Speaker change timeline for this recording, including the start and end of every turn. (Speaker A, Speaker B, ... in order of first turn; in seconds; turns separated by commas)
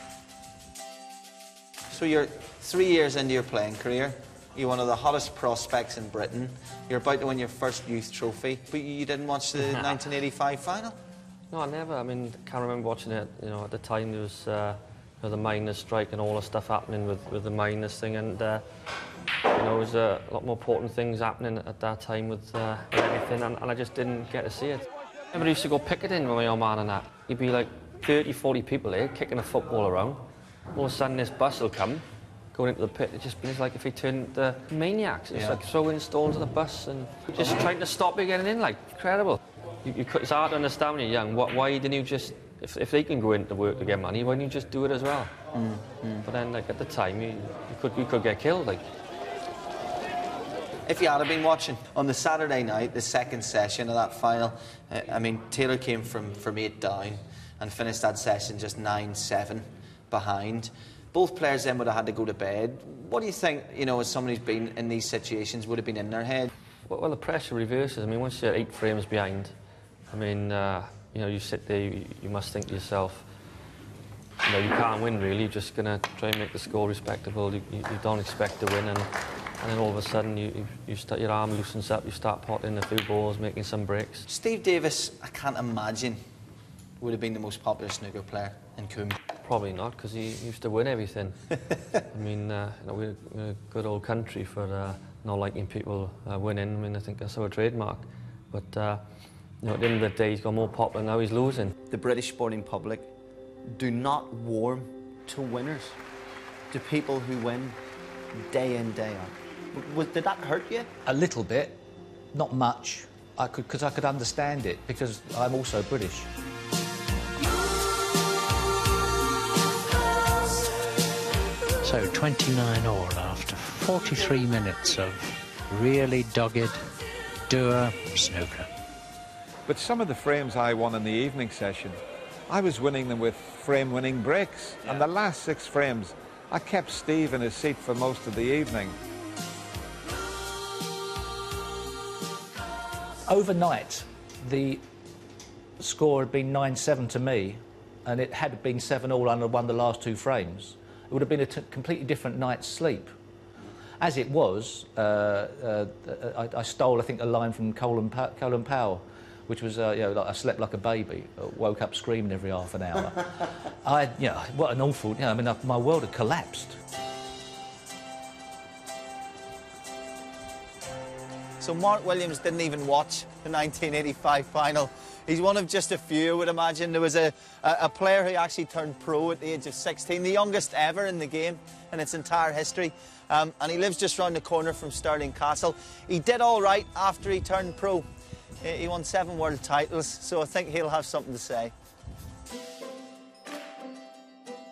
Speaker A: 1.9-11.0, Speaker B: 11.5-18.6, Speaker B: 19.5-45.3, Speaker A: 45.5-46.2, Speaker B: 46.2-48.9, Speaker A: 50.9-66.5, Speaker B: 66.8-69.5, Speaker B: 70.1-73.3, Speaker B: 74.4-84.2, Speaker A: 84.3-86.2, Speaker A: 87.0-89.2, Speaker B: 89.4-101.7, Speaker A: 101.9-103.1, Speaker A: 103.7-106.0, Speaker A: 106.7-107.8, Speaker A: 108.3-110.9, Speaker C: 111.0-111.8, Speaker C: 112.3-116.3, Speaker D: 121.8-126.9, Speaker D: 127.5-128.7, Speaker E: 129.7-139.0, Speaker C: 143.3-144.8, Speaker C: 145.8-153.1, Speaker C: 154.0-166.8, Speaker A: 171.6-188.1, Speaker A: 188.6-191.7